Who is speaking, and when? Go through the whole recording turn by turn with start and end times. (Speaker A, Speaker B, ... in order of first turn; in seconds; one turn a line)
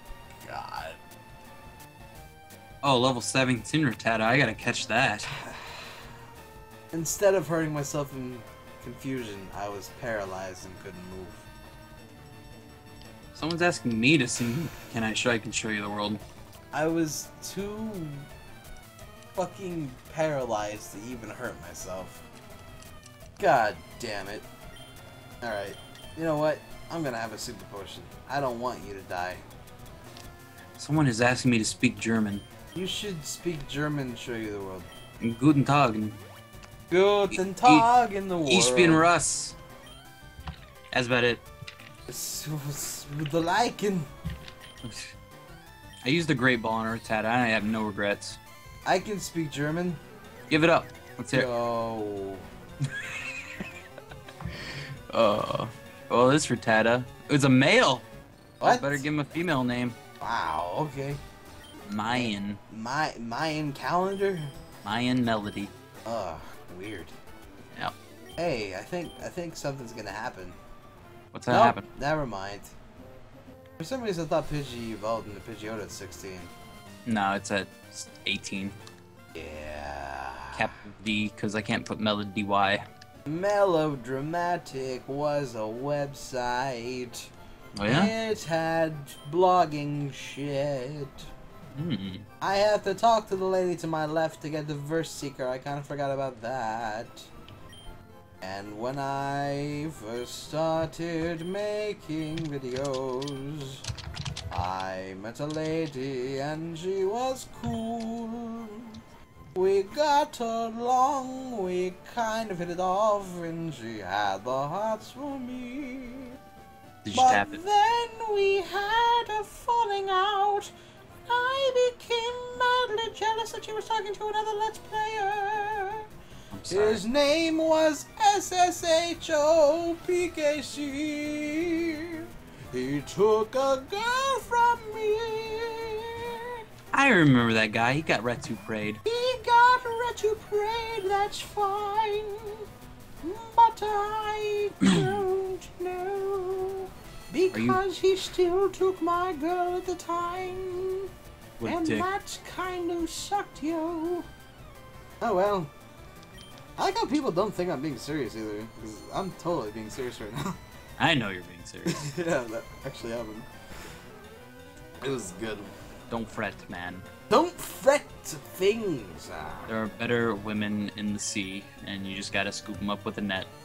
Speaker A: 0.4-1.0
Speaker B: 2.8-5.3
Speaker A: 5.3-5.9
Speaker A: 6.9-11.4
Speaker B: 13.3-16.2
Speaker A: 16.7-18.3
Speaker A: 19.3-22.2
Speaker A: 23.4-24.4
Speaker A: 25.4-29.4
Speaker B: 30.8-32.4
Speaker A: 32.7-34.9
Speaker B: 35.2-36.2
Speaker A: 36.9-39.1
Speaker B: 37.3-37.9
Speaker B: 38.5-39.5
Speaker B: 40.9-41.4
Speaker A: 42.1-44.1
Speaker B: 44.8-45.1
Speaker B: 46.0-48.4
Speaker A: 48.9-50.0
Speaker B: 50.5-51.5
Speaker A: 51.3-52.5
Speaker B: 55.1-58.1
Speaker A: 58.6-59.0
Speaker B: 58.6-60.0
Speaker A: 60.2-61.2
Speaker B: 61.9-62.6
Speaker A: 62.1-64.5
Speaker B: 64.8-65.7
Speaker A: 66.0-67.1
Speaker A: 68.4-70.6
Speaker B: 71.3-71.9
Speaker A: 71.5-72.7
Speaker A: 73.8-76.5
Speaker B: 77.0-78.8
Speaker A: 79.3-80.7
Speaker B: 80.5-82.9
Speaker A: 83.2-87.3
Speaker B: 87.7-88.1
Speaker A: 87.8-91.3
Speaker B: 91.7-92.2
Speaker A: 92.4-97.3
Speaker A: 98.4-103.8
Speaker A: 104.5-109.0
Speaker A: 109.5-116.4
Speaker B: 117.0-117.6
Speaker A: 117.1-120.7
Speaker A: 121.2-126.1
Speaker B: 126.5-127.0
Speaker A: 126.7-136.6
Speaker B: 136.9-139.0
Speaker A: 139.0-142.7
Speaker A: 143.2-151.1
Speaker B: 147.5-147.8
Speaker B: 151.6-152.1
Speaker A: 151.6-154.3
Speaker A: 155.2-155.7
Speaker A: 156.8-160.6
Speaker B: 161.0-162.1
Speaker A: 161.8-163.5
Speaker A: 165.0-165.7
Speaker B: 166.1-167.1
Speaker A: 167.3-169.7
Speaker B: 169.7-173.5